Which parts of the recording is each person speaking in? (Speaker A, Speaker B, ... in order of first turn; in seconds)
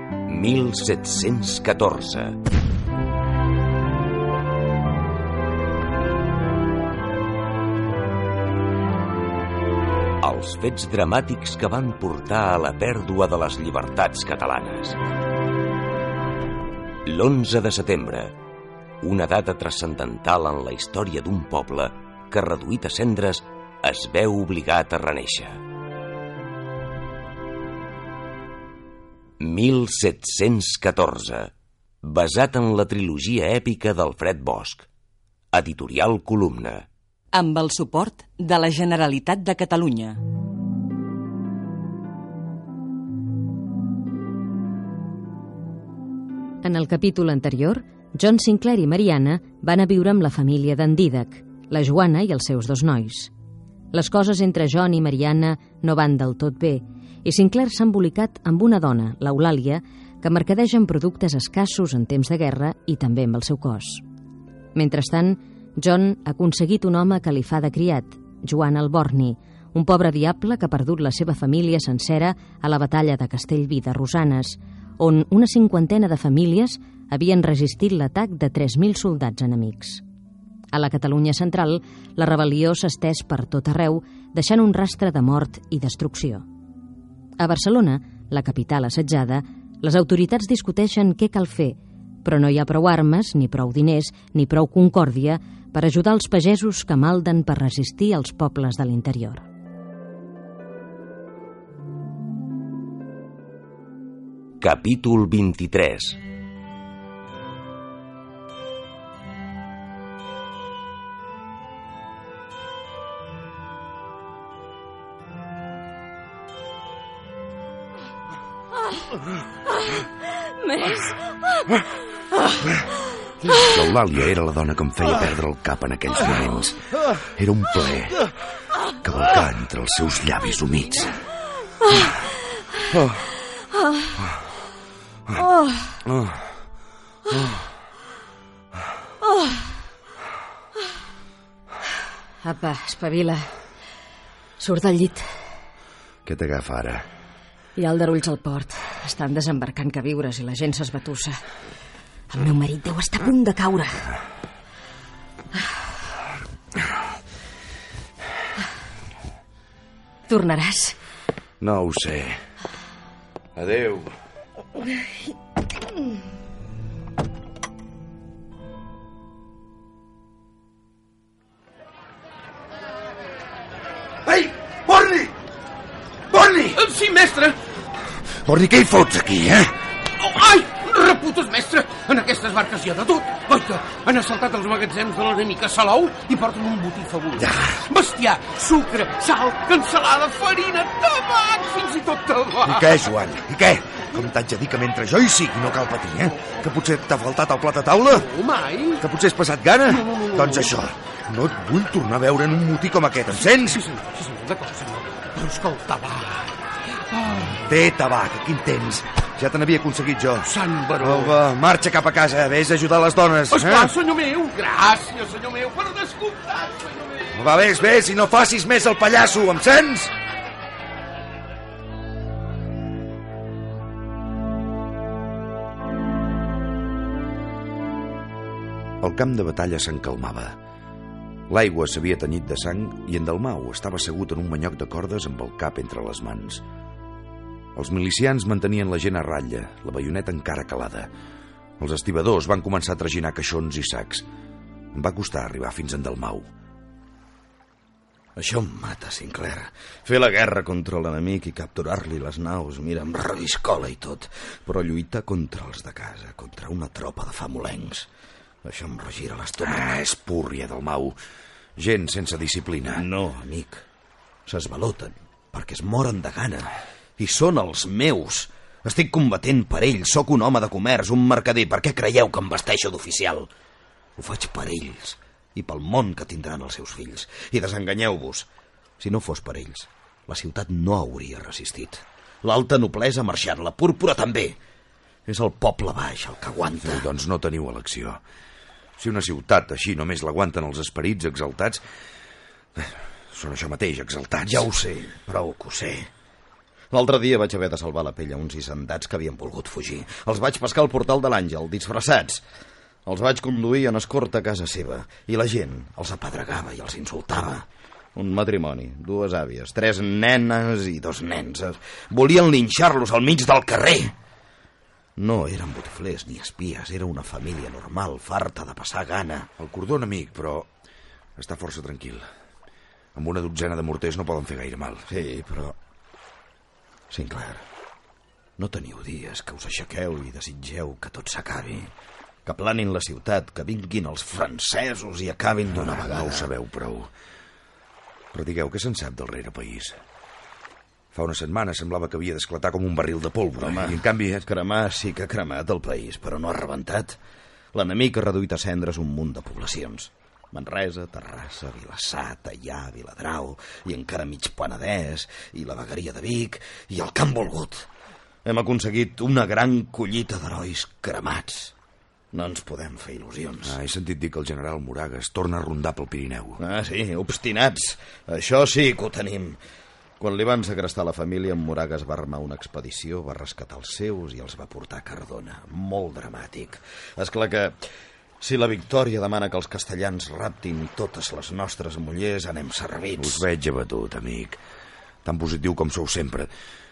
Speaker A: 0.3-2.4, 10.2-15.0, 17.0-18.3, 19.0-25.6, 29.4-31.5, 32.0-34.9, 35.5-36.9, 104.6-106.2
Speaker B: 37.3-40.2
Speaker C: 46.6-53.3, 53.9-64.0, 64.7-80.0, 80.7-86.4, 87.4-99.5, 142.4-143.6, 144.6-145.3, 147.8-151.4, 152.3-154.1, 160.3-160.9
Speaker D: 123.4-128.3, 129.0-131.2, 132.9-133.2, 136.1-136.4, 146.2-147.1, 161.6-162.4, 163.6-164.1, 174.2-175.3, 176.3-176.8, 178.2-179.7, 187.4-187.8, 192.6-198.3, 199.0-203.9, 207.4-213.9, 217.3-220.1, 229.0-230.6, 231.5-236.6, 237.7-241.1, 241.8-244.2, 244.9-246.5, 259.6-261.2, 261.8-263.0, 286.8-288.2, 289.0-291.8, 292.8-294.7, 319.6-320.7, 321.4-322.3, 323.1-325.1, 335.7-337.1, 338.3-340.0, 341.1-344.4, 363.6-366.6, 383.2-384.6, 385.2-386.5
Speaker E: 176.9-177.6, 180.3-192.6, 198.4-199.0, 204.0-206.4, 210.6-211.1, 213.5-217.2
Speaker F: 248.4-258.1, 258.6-259.9, 262.9-263.8, 264.4-273.5, 274.2-278.5, 279.0-284.6, 285.3-287.0, 294.4-296.1, 296.9-302.4, 303.1-314.1, 315.2-319.5, 325.1-325.8, 327.1-327.6, 328.6-331.9, 332.4-336.5, 343.6-347.2, 347.7-357.9, 358.4-361.7, 362.3-363.7, 366.6-369.6, 370.2-377.8, 378.4-383.4